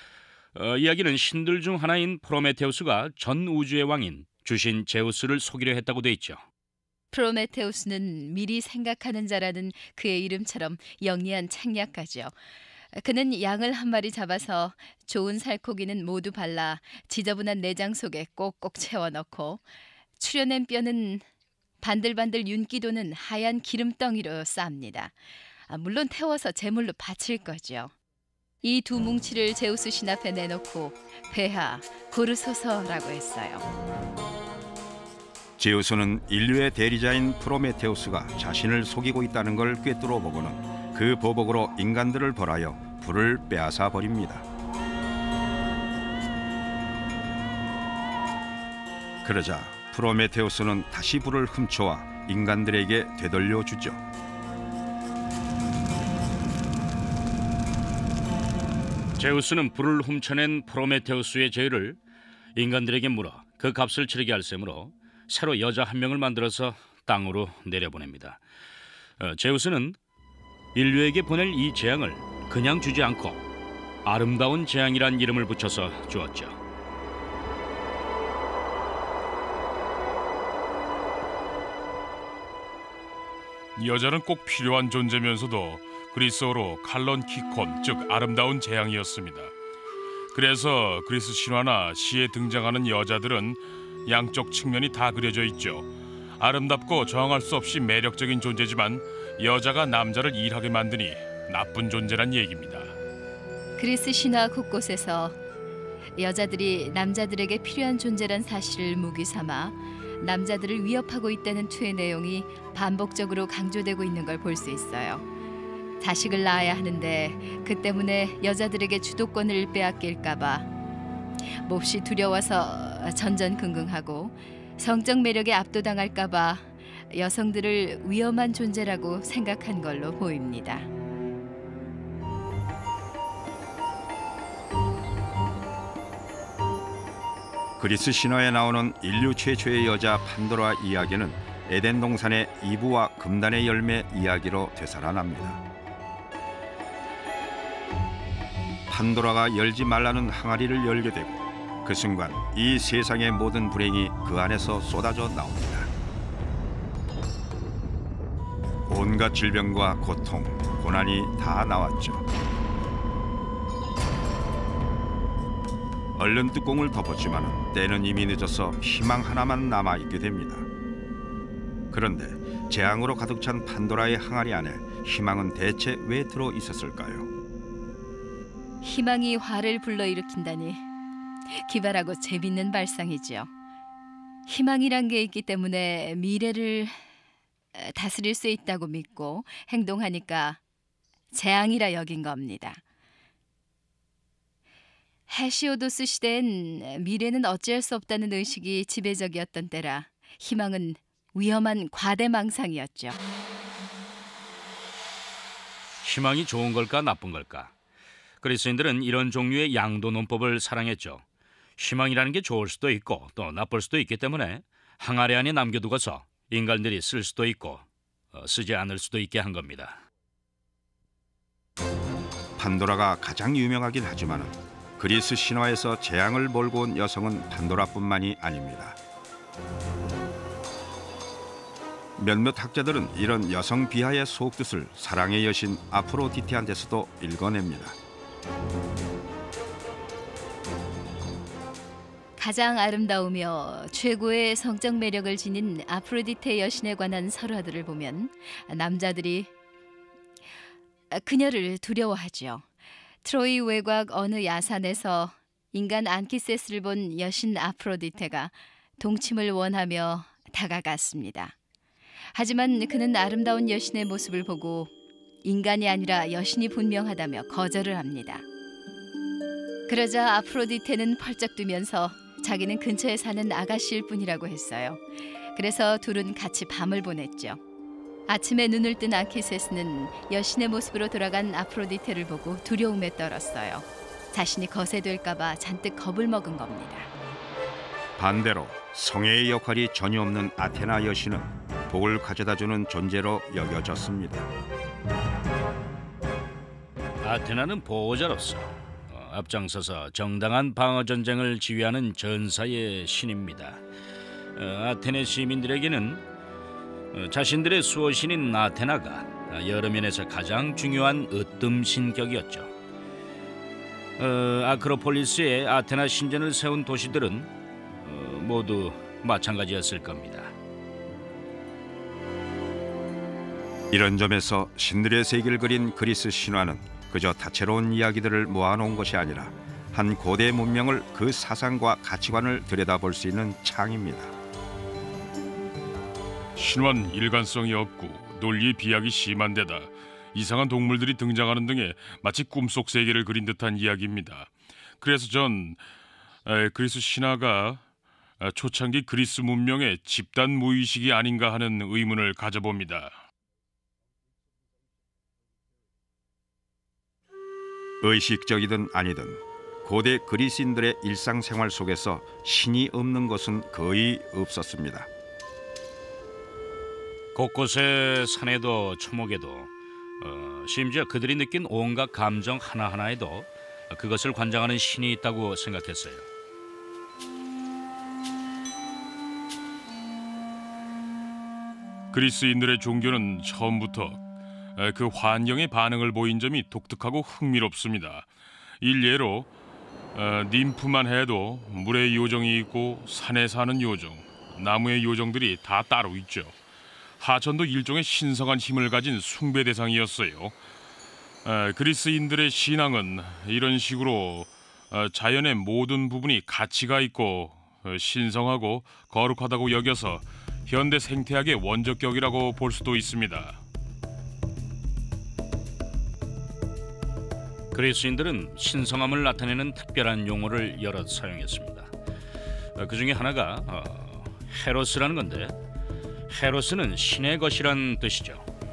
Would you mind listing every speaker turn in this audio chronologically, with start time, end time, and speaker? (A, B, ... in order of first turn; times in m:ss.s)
0:00.6-0:06.4 A
0:07.1-0:12.3 B
0:13.0-0:19.6 B
0:20.2-0:21.3 B
0:21.8-0:25.1 B
0:25.7-0:27.9 B
0:28.6-0:33.7 B
0:35.6-0:44.5 C
0:49.2-0:54.0 C
0:59.2-1:02.0 A
1:02.6-1:08.4 A
1:09.2-1:10.0 A
1:10.8-1:13.4 A
1:14.0-1:16.6 A
1:23.8-1:29.5 D
1:30.3-1:43.0 D
1:43.8-1:45.4 B
1:46.2-1:55.2 B
1:56.0-2:00.7 B
2:01.6-2:10.9 B
2:17.8-2:25.6 C
2:28.9-2:35.9 C
2:38.9-2:42.2 C
2:46.2-2:50.7 C
2:51.9-2:57.3 C
2:58.8-3:00.8 B
3:01.5-3:03.5 B
3:04.5-3:07.0 B
3:07.8-3:10.6 B
3:11.3-3:12.8 B
3:15.3-3:23.2 B
3:26.0-3:27.7 A
3:28.4-3:31.2 A
3:31.8-3:40.0 A
3:42.6-3:49.0 C
3:52.2-3:58.0 C
4:02.4-4:09.5 B
4:11.1-4:12.6 B
4:13.2-4:21.6 B
4:22.4-4:24.9 B
4:25.5-4:28.4 B
4:29.9-4:35.0 B
4:35.6-4:37.6 B
4:38.3-4:47.1 B
4:48.2-4:54.5 C
4:57.2-5:03.8 A
5:04.6-5:06.2 A
5:07.1-5:12.7 A
5:14.2-5:17.5 A
5:18.0-5:20.5 A
5:23.9-5:34.3 C
5:36.6-5:45.8 D
5:46.5-5:47.8 D
5:48.4-5:53.2 D
5:58.0-6:05.1 C
6:07.4-6:16.2 A
6:22.1-6:24.2 D
6:24.8-6:28.3 D
6:28.8-6:29.5 D
6:30.1-6:36.6 D
6:37.2-6:40.6 D
6:41.4-6:53.6 D
6:57.7-7:01.9 A
7:02.8-7:05.6 A
7:06.3-7:08.5 A